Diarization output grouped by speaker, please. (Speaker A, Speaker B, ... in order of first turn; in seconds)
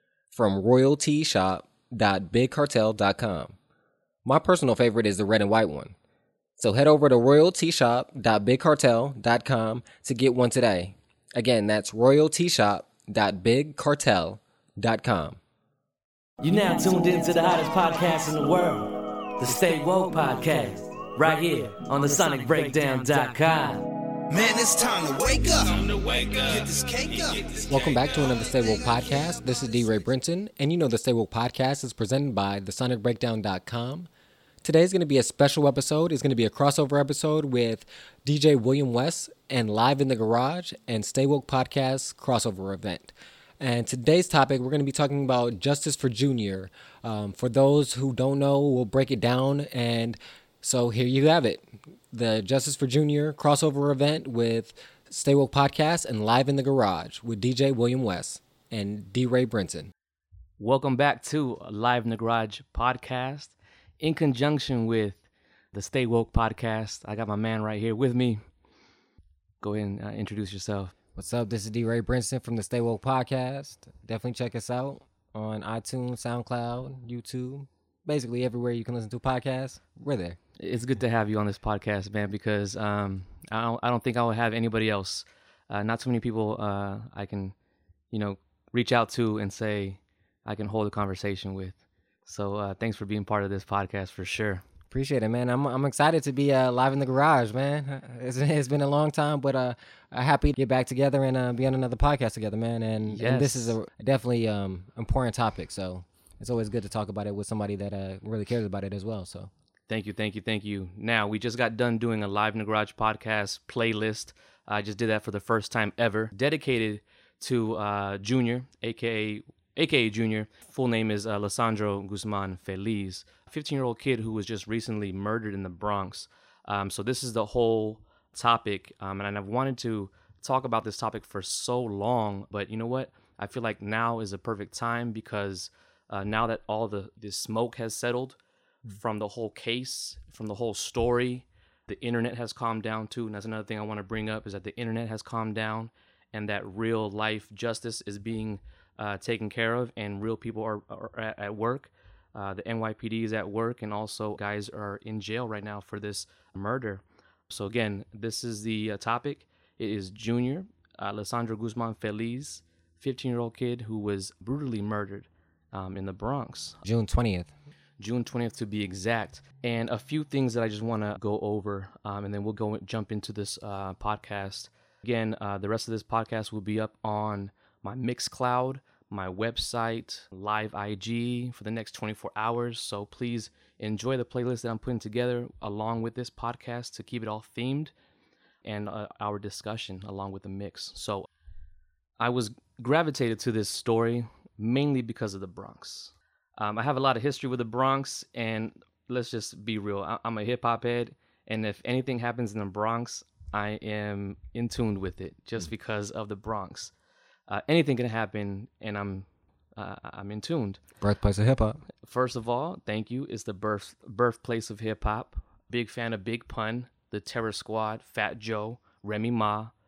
Speaker A: 0.3-3.6, 4.2-6.0, 6.6-15.4, 27.7-34.1, 34.6-59.9, 71.2-80.4, 94.9-109.5, 166.8-167.5, 211.0-211.8
Speaker B: 16.4-23.8, 60.6-65.2, 65.7-68.4, 69.6-70.9, 80.6-87.5, 88.1-94.6, 103.1-103.8, 109.9-138.4, 138.9-166.8, 168.0-187.9, 188.7-191.3, 192.2-206.9, 207.5-210.8, 212.0-219.7
Speaker C: 24.3-28.0